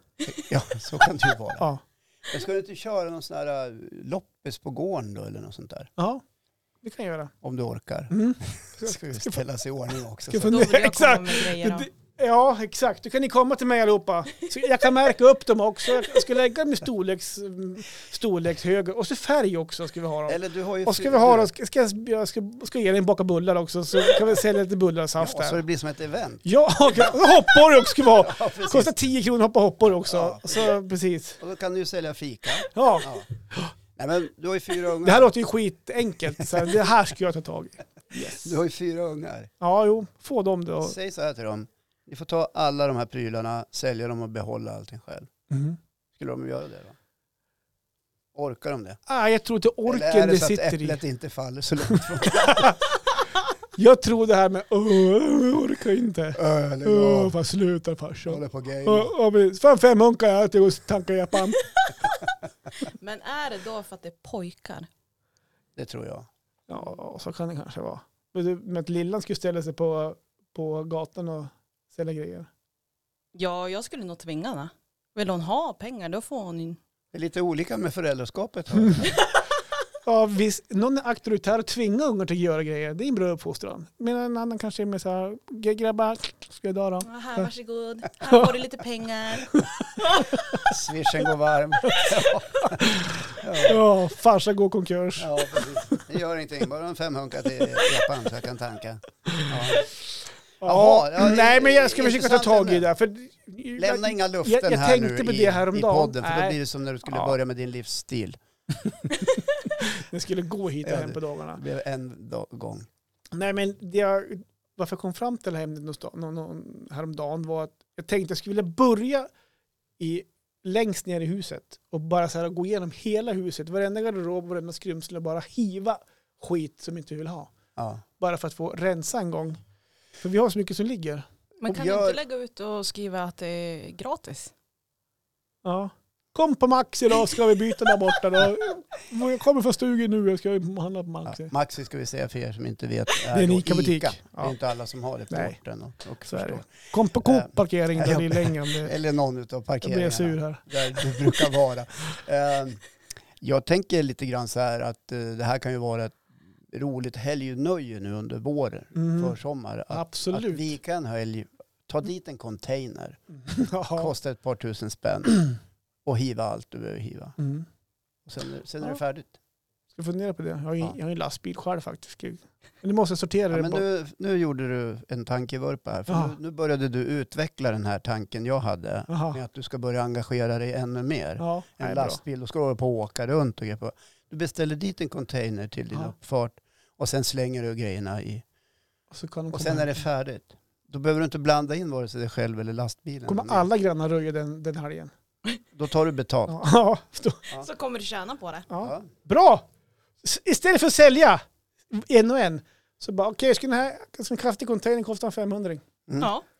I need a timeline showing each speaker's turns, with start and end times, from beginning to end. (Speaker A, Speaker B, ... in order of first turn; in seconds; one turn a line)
Speaker A: 0.3-1.7
Speaker A: 2.3-5.9
Speaker B: 6.0-6.2
Speaker B: 6.8-7.3
Speaker A: 7.4-10.7
Speaker B: 8.1-9.4
Speaker B: 10.3-25.6
Speaker C: 10.4-11.9
Speaker A: 20.3-21.5
Speaker A: 25.2-27.2
Speaker B: 26.4-31.4
Speaker A: 28.1-28.9
Speaker A: 30.1-30.8
Speaker A: 31.4-33.3
Speaker B: 32.7-33.7
Speaker A: 34.0-35.3
Speaker B: 35.0-38.5
Speaker A: 36.4-36.7
Speaker A: 38.2-39.5
Speaker B: 39.6-40.9
Speaker A: 40.8-45.3
Speaker B: 45.5-45.8
Speaker A: 46.1-47.0
Speaker A: 48.3-49.0
Speaker B: 49.1-51.0
Speaker A: 49.9-52.8
Speaker B: 51.9-52.8
Speaker B: 53.7-61.9
Speaker A: 56.4-57.3
Speaker A: 58.3-59.1
Speaker C: 62.8-64.9
Speaker A: 65.8-66.3
Speaker B: 66.7-72.5
Speaker C: 73.3-76.8
Speaker A: 77.1-79.2
Speaker B: 80.0-87.5
Speaker C: 87.0-89.7
Speaker B: 90.0-90.7
Speaker A: 90.6-93.8
Speaker B: 92.6-95.7
Speaker A: 95.2-99.9
Speaker B: 100.6-106.6
Speaker A: 100.6-102.9
Speaker A: 103.8-108.4
Speaker B: 107.1-107.3
Speaker B: 108.9-111.6
Speaker A: 110.8-112.9
Speaker B: 113.3-119.3
Speaker B: 120.0-127.5
Speaker A: 127.8-128.0
Speaker B: 128.2-129.6
Speaker B: 130.2-131.3
Speaker A: 131.6-132.2
Speaker C: 131.6-134.5
Speaker B: 135.6-141.5
Speaker A: 141.2-152.8
Speaker B: 143.3-144.5
Speaker B: 145.3-145.6
Speaker B: 146.3-148.9
Speaker B: 149.8-151.5
Speaker A: 153.4-163.2
Speaker B: 158.9-159.4
Speaker B: 159.9-160.7
Speaker B: 163.4-164.1
Speaker A: 163.9-165.5
Speaker A: 166.1-167.3
Speaker B: 167.4-167.7
Speaker A: 168.2-169.4
Speaker B: 169.9-173.8
Speaker A: 173.5-188.4
Speaker B: 176.1-176.3
Speaker B: 179.1-179.4
Speaker B: 181.4-182.2
Speaker B: 189.1-190.0
Speaker A: 189.5-193.7
Speaker B: 193.3-195.1
Speaker A: 195.7-196.6
Speaker B: 196.5-197.5
Speaker C: 197.6-198.7
Speaker B: 198.7-199.7
Speaker B: 200.2-205.8
Speaker A: 206.1-206.3
Speaker C: 206.2-206.4